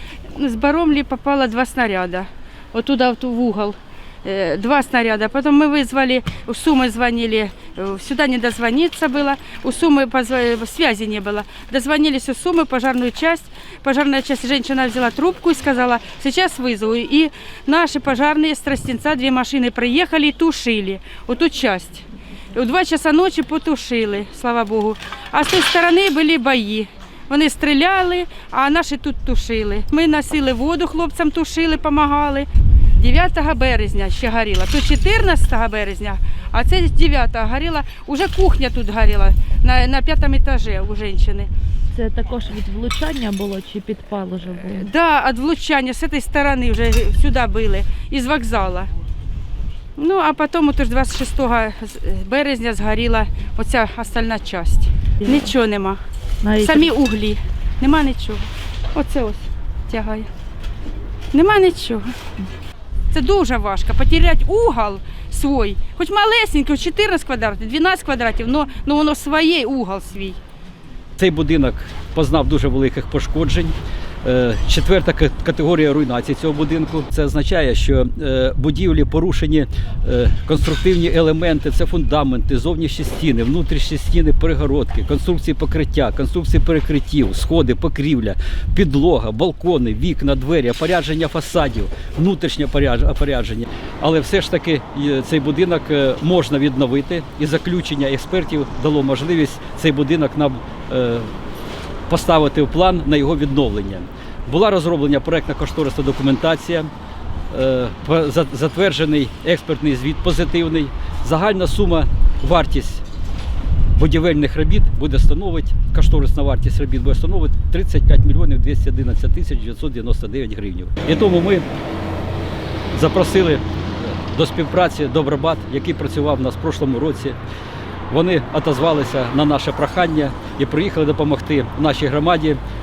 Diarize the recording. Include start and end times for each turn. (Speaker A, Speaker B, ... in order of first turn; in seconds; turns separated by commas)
Speaker A: 0.4-41.5, Speaker B: 42.0-44.9, Speaker A: 44.7-48.9, Speaker A: 50.0-56.0, Speaker B: 55.2-55.5, Speaker B: 56.4-56.9, Speaker A: 56.6-60.3, Speaker A: 61.3-62.1, Speaker A: 63.1-70.4, Speaker C: 71.2-101.3, Speaker C: 102.1-106.9, Speaker C: 107.5-113.0, Speaker C: 114.0-121.7, Speaker C: 122.9-127.4, Speaker C: 128.1-132.6